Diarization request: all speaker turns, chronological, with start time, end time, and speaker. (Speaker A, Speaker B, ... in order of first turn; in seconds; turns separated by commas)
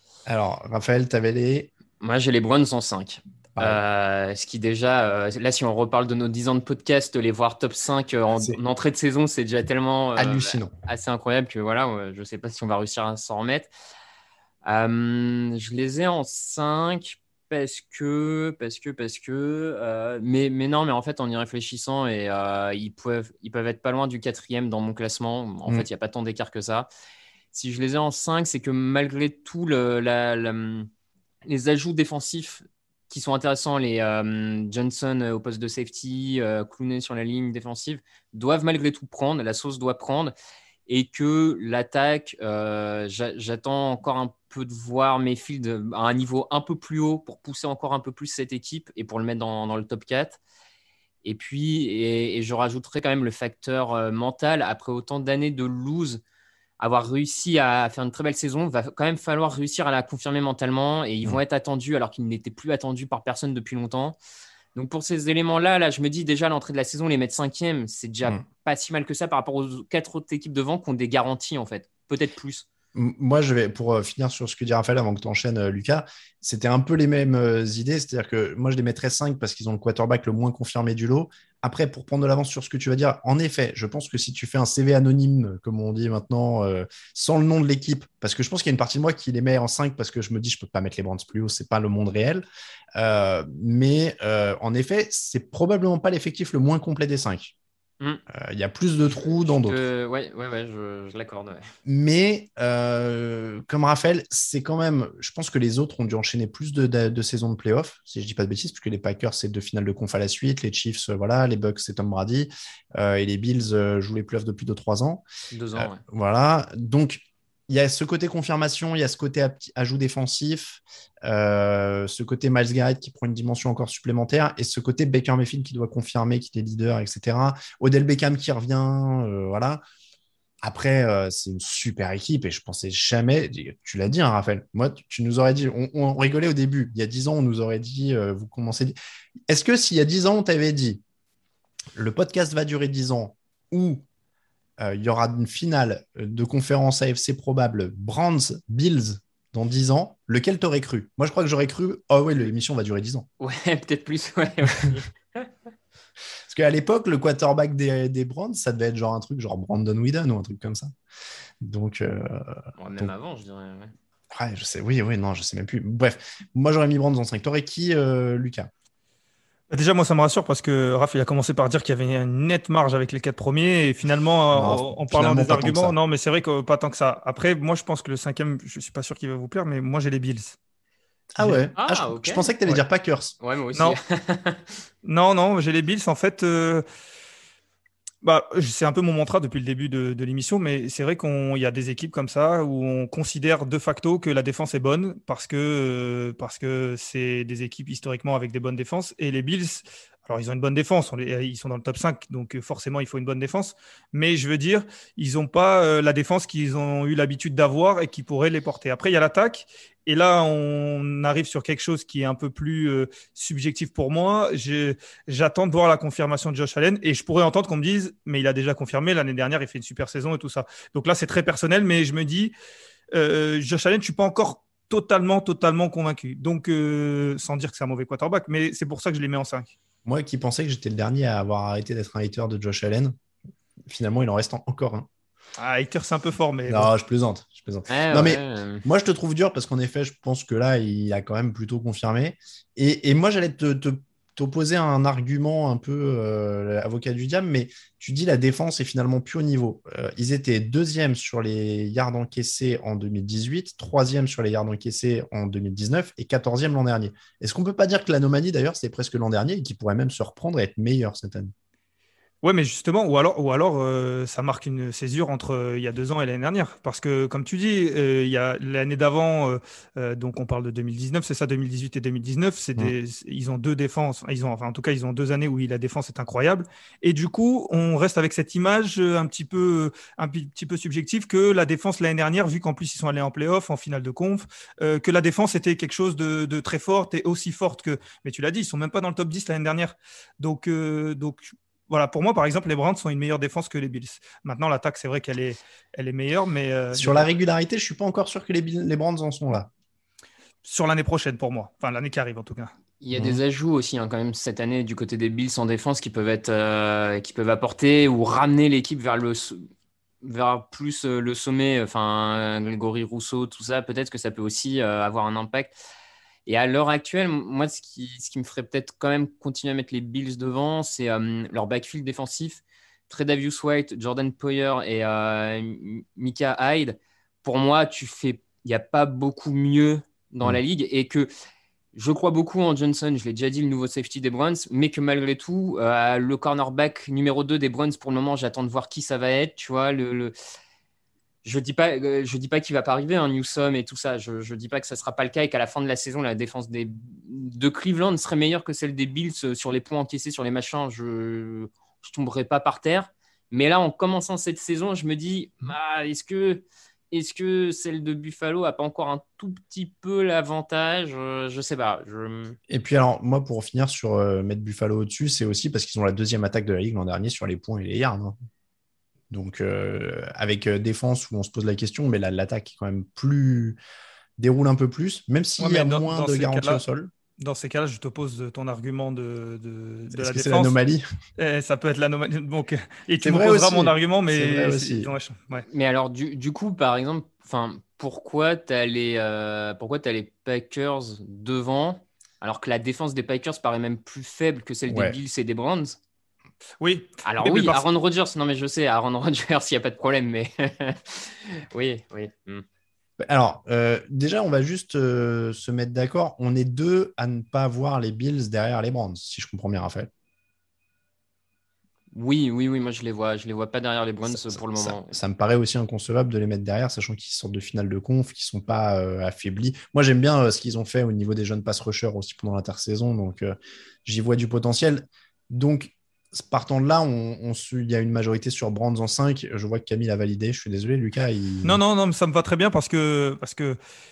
Speaker A: 0.2-1.7, Speaker B: 2.0-13.7, Speaker A: 10.2-10.7, Speaker B: 14.6-26.9, Speaker B: 27.5-30.9, Speaker B: 31.4-40.3, Speaker B: 40.9-50.4, Speaker B: 51.2-56.2, Speaker B: 56.8-64.2, Speaker B: 64.7-72.7, Speaker A: 72.9-92.4, Speaker A: 93.0-97.5, Speaker A: 98.3-99.8, Speaker B: 99.4-101.7, Speaker A: 101.8-115.2, Speaker B: 115.5-116.0, Speaker A: 115.8-129.8, Speaker A: 130.6-138.9, Speaker A: 139.5-141.0, Speaker A: 141.9-144.0, Speaker A: 144.8-153.3, Speaker B: 153.4-155.5, Speaker A: 156.5-160.9, Speaker A: 161.6-163.1, Speaker B: 162.8-163.9, Speaker A: 164.3-168.7, Speaker C: 169.7-180.6, Speaker A: 174.5-175.9, Speaker A: 181.3-183.4, Speaker C: 181.4-181.6, Speaker B: 181.8-182.5, Speaker B: 183.4-184.7, Speaker C: 185.0-186.8, Speaker C: 188.2-222.5, Speaker C: 223.1-229.7, Speaker A: 230.0-233.2, Speaker A: 233.9-235.1, Speaker C: 235.6-236.9, Speaker A: 236.7-261.5, Speaker B: 237.9-238.8, Speaker C: 262.4-297.3, Speaker A: 296.9-299.7, Speaker C: 300.6-302.7, Speaker B: 303.0-309.6, Speaker A: 303.1-303.4, Speaker B: 310.2-315.7, Speaker B: 316.5-331.3, Speaker B: 331.9-340.3, Speaker B: 341.4-362.6, Speaker A: 362.7-368.4, Speaker A: 369.3-373.8, Speaker A: 374.4-377.1, Speaker C: 375.6-376.8, Speaker C: 377.4-380.8, Speaker A: 380.1-381.0, Speaker C: 381.4-385.6, Speaker A: 383.2-385.1, Speaker B: 385.7-396.0, Speaker A: 394.9-395.2, Speaker C: 396.8-397.8, Speaker B: 397.2-402.6, Speaker A: 403.2-410.1, Speaker B: 412.1-415.1, Speaker A: 414.2-431.8, Speaker C: 431.6-433.8